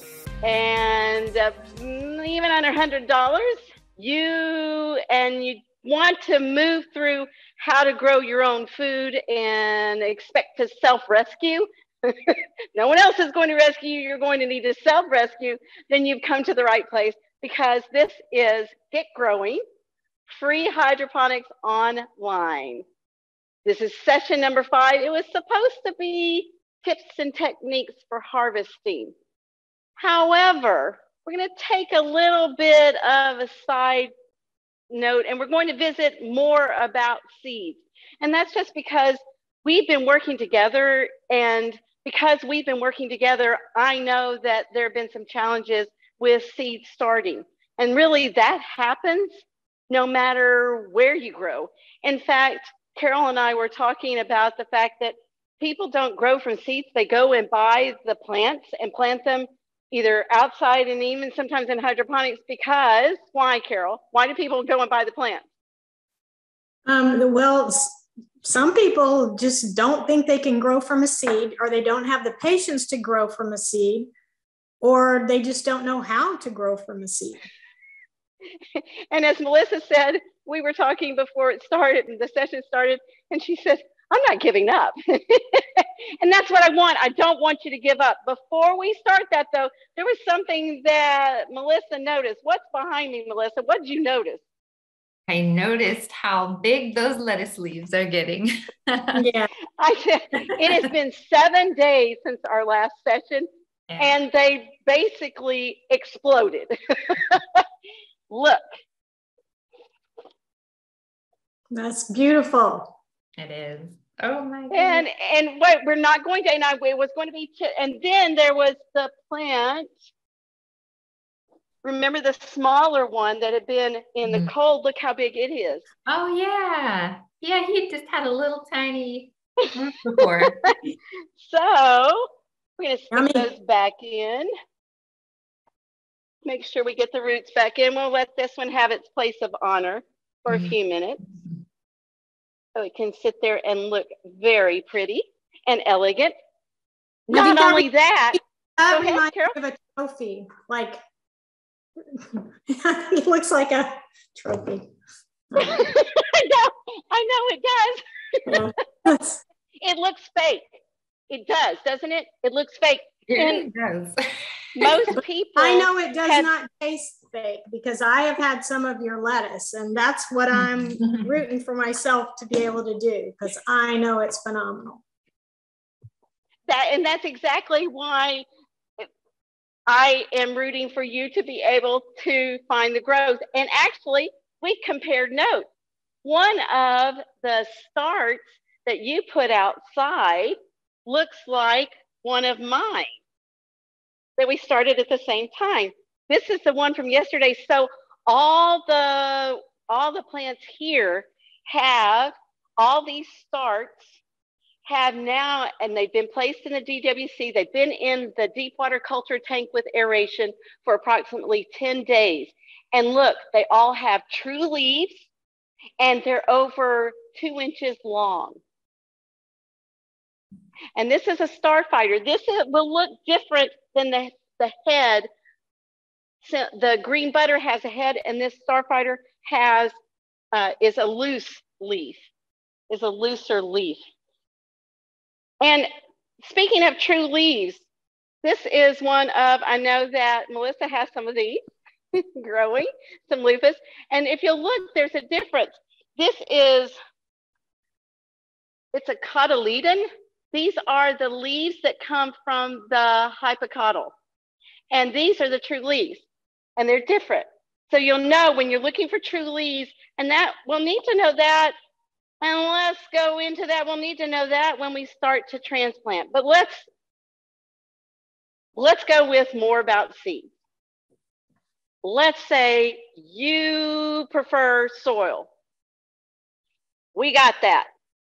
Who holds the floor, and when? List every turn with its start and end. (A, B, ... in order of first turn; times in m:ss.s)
0:00.4-0:19.6 A
0:20.3-0:22.8 A
0:23.6-0:29.1 A
0:30.0-0:34.1 A
0:34.9-1:05.4 A
1:06.9-1:14.1 B
1:14.8-1:17.4 B
1:18.8-1:34.4 A
1:35.3-1:39.3 C
1:39.1-1:39.5 B
1:39.8-1:43.5 A
1:43.9-1:44.2 C
1:44.0-1:47.6 A
1:48.3-1:48.6 A
1:51.7-1:52.9 B
1:53.4-1:55.1 C
1:54.7-1:59.9 A
2:01.8-2:05.8 A
2:04.2-2:04.5 C
2:06.1-2:10.7 C
2:10.2-2:10.7 A
2:11.4-2:12.2 A
2:12.8-2:14.5 A
2:13.1-2:13.5 B
2:16.4-2:21.2 A
2:22.8-2:26.3 A
2:27.3-2:29.6 A
2:27.3-2:27.8 B
2:28.8-2:31.0 B
2:32.2-2:34.8 B
2:35.5-2:35.9 B
2:35.7-2:38.0 A
2:38.5-2:39.4 B
2:39.8-2:40.8 A
2:41.3-2:43.7 A
2:43.3-2:44.2 C
2:44.8-2:46.5 A
2:45.6-2:55.0 B
2:50.5-2:51.3 C
2:56.7-2:58.5 A
2:59.9-3:05.7 A
3:06.2-3:10.6 A
3:11.1-3:13.1 A
3:14.4-3:24.2 A
3:24.8-3:35.3 A
3:36.0-3:38.6 A
3:41.0-3:45.3 A
3:46.4-3:49.9 A
3:50.5-3:52.2 A
3:52.9-3:54.0 A
3:55.6-3:55.9 A
3:56.4-3:57.8 A
3:58.4-4:01.6 A
4:02.4-4:06.9 A
4:08.9-4:14.1 A
4:14.9-4:16.2 A
4:16.8-4:21.7 A
4:22.4-4:26.9 A
4:28.8-4:30.5 A
4:32.0-4:35.5 A
4:37.1-4:37.9 A